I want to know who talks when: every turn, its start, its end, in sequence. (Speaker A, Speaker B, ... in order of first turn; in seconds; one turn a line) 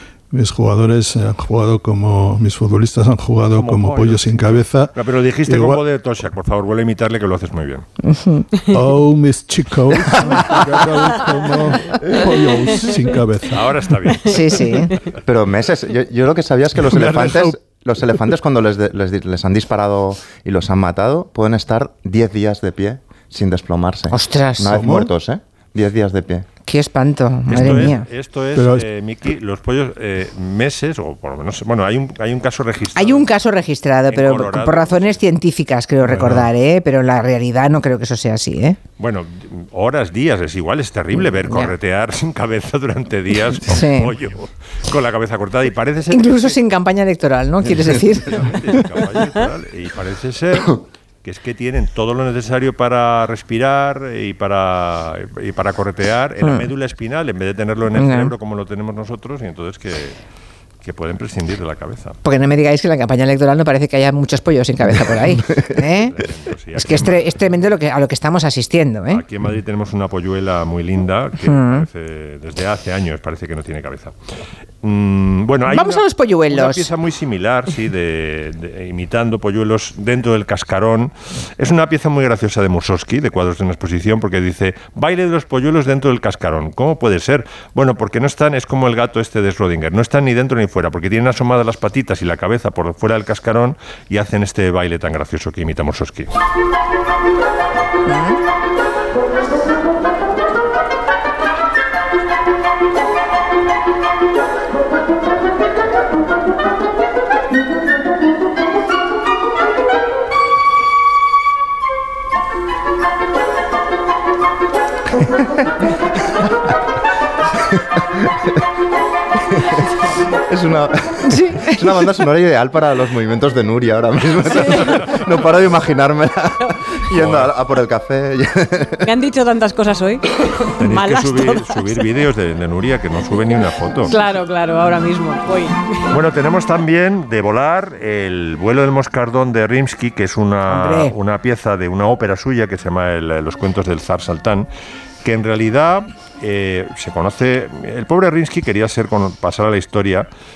Speaker A: 0.3-4.9
Speaker B: 3.5-4.3
Speaker B: 5.0-7.9
Speaker A: 5.5-5.8
Speaker C: 8.0-8.5
Speaker A: 8.7-13.8
Speaker D: 10.2-10.6
Speaker B: 13.5-14.3
Speaker C: 14.3-14.9
Speaker D: 15.3-26.5
Speaker A: 16.8-17.6
Speaker C: 24.1-25.0
Speaker A: 24.7-25.1
Speaker C: 26.7-28.0
Speaker B: 27.5-33.3
Speaker A: 27.6-27.9
Speaker A: 28.6-28.9
Speaker C: 33.0-38.8
Speaker B: 34.1-35.2
Speaker B: 36.1-36.5
Speaker B: 39.0-46.6
Speaker C: 41.1-41.7
Speaker C: 43.6-44.1
Speaker C: 46.1-48.8
Speaker B: 48.3-60.2
Speaker C: 56.4-56.7
Speaker C: 58.0-58.3
Speaker B: 60.8-62.2
Speaker C: 62.2-66.2
Speaker B: 66.0-67.2
Speaker C: 66.8-69.2
Speaker B: 69.1-74.2
Speaker C: 71.4-71.9
Speaker B: 74.8-96.3
Speaker C: 75.7-76.9
Speaker C: 98.1-98.4
Speaker D: 115.2-115.9
Speaker D: 119.6-119.8
Speaker D: 120.5-129.0
Speaker C: 121.2-122.1
Speaker E: 124.5-124.8
Speaker B: 127.2-127.5
Speaker E: 129.0-130.2
Speaker B: 130.8-134.1
Speaker E: 130.9-131.6
Speaker E: 134.1-135.9
Speaker B: 136.1-144.7
Speaker C: 140.7-141.2
Speaker B: 145.2-150.3